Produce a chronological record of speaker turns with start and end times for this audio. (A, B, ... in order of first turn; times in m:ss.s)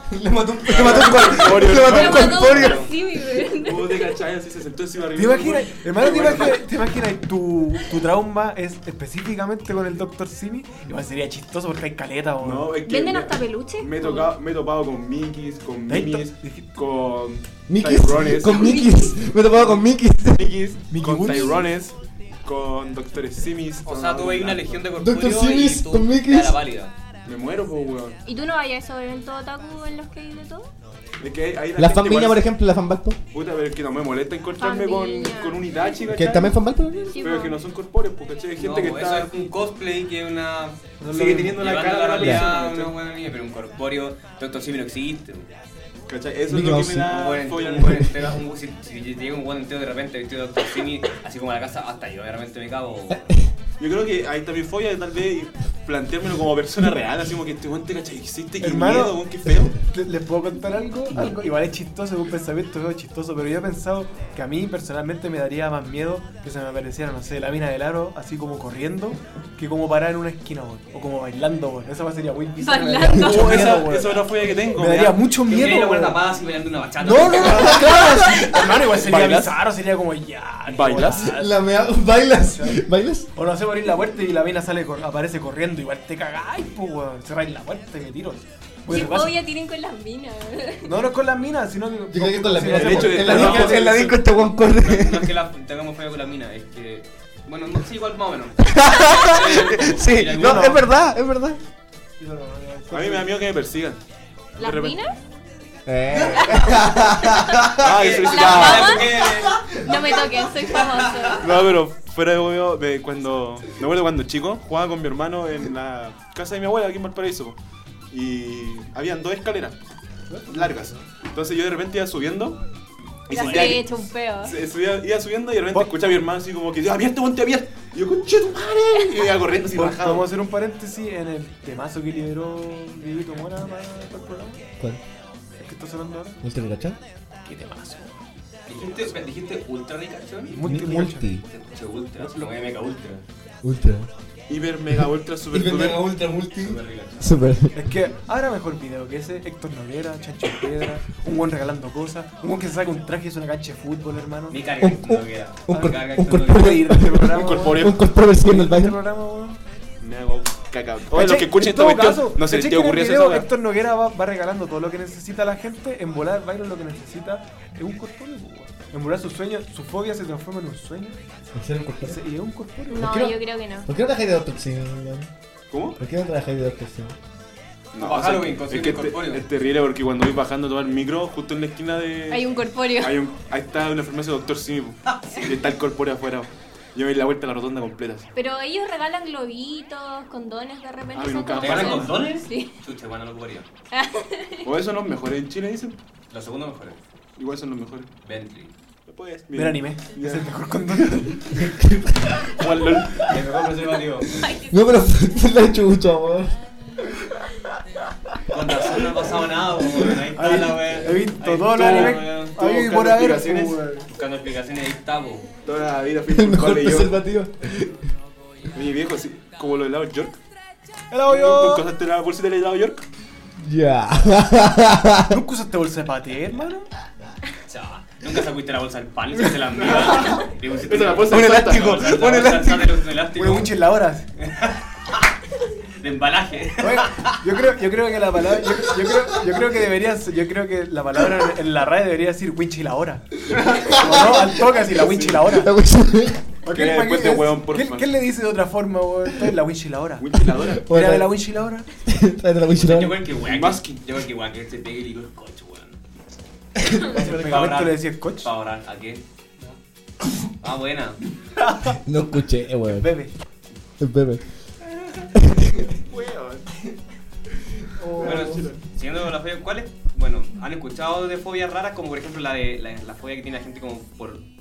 0:00.1-0:02.9 A
0:00.7-0:02.8 B
0:01.3-0:04.1 C
0:02.4-0:02.9 D
0:03.5-0:06.6 B
0:05.1-0:12.7 E
0:12.4-0:18.9 B
0:12.8-0:14.3 C
0:15.9-0:16.7 E
0:17.7-0:20.6 A
0:18.5-0:19.1 C
0:19.5-0:19.8 B
0:20.3-0:24.8 B
0:20.9-0:21.7 E
0:23.8-0:26.9 D
0:25.0-0:26.6 A
0:27.2-0:28.2 B
0:28.2-0:30.7 C
0:31.2-0:32.5 B
0:31.8-0:33.2 A
0:33.3-0:36.6 B
0:34.6-0:36.1 C
0:36.0-0:37.2 A
0:37.1-0:37.6 C
0:37.2-0:39.3 B
0:38.6-0:40.8 D
0:41.0-0:41.6 E
0:41.1-0:42.9 B
0:41.4-0:45.5 D
0:42.2-0:42.5 A
0:46.1-0:48.1 B
0:46.5-0:47.1 A
0:47.0-0:53.3 D
0:53.8-0:59.8 B
0:58.6-1:16.2 E
1:12.6-1:13.8 C
1:13.2-1:15.2 B
1:15.4-1:17.9 D
1:17.0-1:21.7 E
1:17.5-1:18.8 A
1:18.9-1:19.5 B
1:20.7-1:21.3 B
1:21.2-1:23.3 A
1:22.4-1:22.8 E
1:23.3-1:29.4 E
1:28.9-1:30.9 C
1:30.8-1:33.9 E
1:32.1-1:35.3 A
1:32.7-1:34.2 B
1:34.5-1:40.8 D
1:38.6-1:41.6 A
1:40.4-1:40.8 E
1:42.2-1:43.3 E
1:42.9-1:44.0 B
1:44.6-1:45.0 B
1:44.6-1:45.2 C
1:45.8-1:48.0 A
1:46.3-1:46.7 C
1:47.2-1:47.6 C
1:47.8-1:49.2 B
1:47.8-1:49.7 D
1:48.2-1:51.5 C
1:49.2-1:50.8 A
1:50.8-1:51.4 D
1:51.4-1:57.6 B
1:58.1-1:59.8 B
2:00.3-2:01.0 E
2:00.5-2:02.6 B
2:03.3-2:10.3 B
2:03.3-2:04.6 C
2:09.7-2:14.6 E
2:15.6-2:16.4 E
2:16.4-2:17.0 A
2:17.4-2:18.2 E
2:18.7-2:20.6 D
2:20.5-2:21.3 E
2:20.6-2:21.4 A
2:21.5-2:23.2 D
2:23.6-2:24.1 A
2:24.5-2:26.1 B
2:24.9-2:27.8 A
2:26.5-2:27.3 D
2:27.7-2:34.6 E
2:34.5-2:36.8 D
2:34.8-2:39.0 A
2:35.7-2:39.6 E
2:37.3-2:38.0 B
2:40.0-2:43.5 B
2:41.1-2:51.2 E
2:51.5-2:52.2 A
2:52.0-2:53.1 E
2:52.9-2:53.9 C
2:52.9-2:55.3 A
2:55.7-2:56.0 B
2:56.0-2:57.2 A
2:57.9-3:08.3 B
2:58.0-2:59.4 D
3:02.3-3:03.2 C
3:08.3-3:12.7 C
3:11.1-3:12.3 B
3:11.6-3:13.7 D
3:13.9-3:14.7 C
3:14.6-3:16.0 B
3:16.3-3:17.0 D
3:17.4-3:18.1 B
3:18.2-3:18.7 D
3:19.1-3:20.5 B
3:19.5-3:21.7 E
3:21.6-3:22.4 A
3:22.4-3:23.4 B
3:23.2-3:24.3 D
3:24.3-3:24.8 C
3:24.7-3:26.6 A
3:28.5-3:32.6 D
3:30.3-3:34.0 E
3:31.6-3:33.8 B
3:34.1-3:35.5 D
3:35.6-3:37.2 B
3:36.3-3:38.0 A
3:38.7-3:40.4 B
3:41.1-3:41.9 E
3:41.3-3:43.0 B
3:43.6-3:45.4 A
3:45.3-3:46.9 E
3:47.7-3:53.7 D
3:49.8-3:52.4 B
3:51.3-3:53.0 A
3:53.4-3:54.2 E
3:54.4-3:54.8 D
3:56.0-3:57.4 D
3:56.8-4:03.3 E
4:03.5-4:04.5 A
4:03.6-4:04.1 B
4:03.9-4:05.7 E
4:04.7-4:05.5 B
4:05.4-4:06.5 A
4:06.6-4:10.3 E
4:06.7-4:08.2 B
4:10.2-4:10.9 B
4:10.4-4:11.3 A
4:10.8-4:11.9 E
4:12.0-4:13.2 A
4:12.8-4:16.0 D
4:13.4-4:14.0 B
4:16.8-4:17.1 A
4:17.0-4:18.5 E
4:17.1-4:19.2 D
4:20.6-4:21.2 D
4:21.6-4:22.0 E
4:22.0-4:23.1 A
4:22.9-4:23.3 E
4:24.0-4:24.4 A
4:25.3-4:25.9 A
4:26.0-4:26.7 B
4:28.0-4:28.6 A
4:28.1-4:28.4 E
4:28.2-4:28.8 B
4:28.2-4:34.4 D